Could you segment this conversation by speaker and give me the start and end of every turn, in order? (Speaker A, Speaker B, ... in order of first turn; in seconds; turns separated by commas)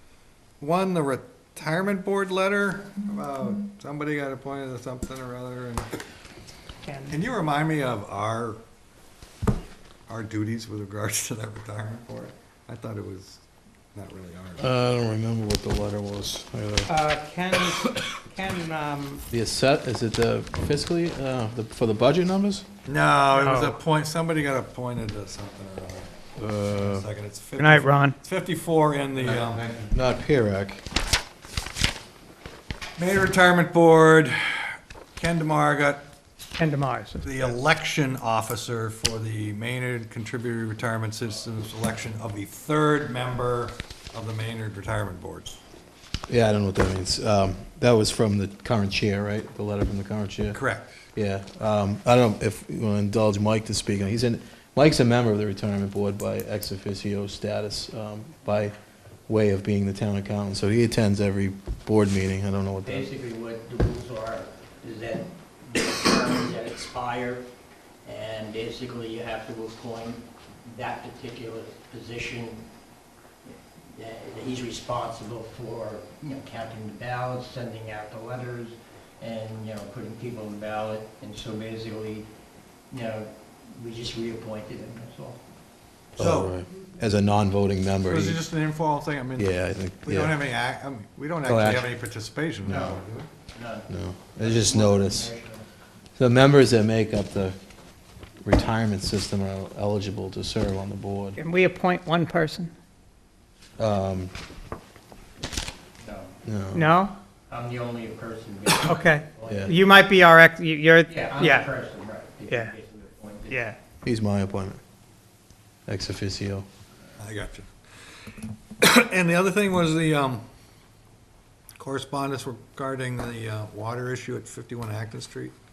Speaker A: 0.6-5.9, Speaker B: 6.8-7.2, Speaker A: 7.1-8.6, Speaker A: 10.1-14.7, Speaker C: 14.6-16.9, Speaker B: 16.9-19.2, Speaker C: 19.3-22.6, Speaker A: 22.9-29.9, Speaker B: 23.3-23.8, Speaker C: 26.4-27.1, Speaker B: 27.6-28.2, Speaker C: 29.6-30.8, Speaker A: 33.0-36.1, Speaker B: 36.6-37.3, Speaker A: 37.2-45.6, Speaker C: 46.3-50.6, Speaker A: 50.5-50.9, Speaker C: 51.1-58.7, Speaker C: 59.3-63.1, Speaker D: 62.8-67.5, Speaker D: 68.0-72.7, Speaker D: 73.4-82.3, Speaker D: 82.9-85.4, Speaker A: 86.2-86.5, Speaker C: 86.2-88.4, Speaker A: 88.0-93.3, Speaker C: 89.4-90.4, Speaker C: 91.4-92.0, Speaker D: 92.7-95.7, Speaker C: 93.9-95.3, Speaker C: 96.2-97.5, Speaker C: 98.4-101.3, Speaker B: 101.4-102.7, Speaker C: 103.8-104.3, Speaker D: 106.0-106.3, Speaker C: 106.4-106.9, Speaker B: 106.7-107.1, Speaker D: 107.5-109.8, Speaker B: 108.8-111.7, Speaker D: 111.1-113.7, Speaker B: 112.5-112.8, Speaker B: 113.5-113.8, Speaker C: 114.0-114.8, Speaker C: 115.9-116.7, Speaker A: 117.2-117.7, Speaker A: 118.8-120.4, Speaker A: 121.8-125.5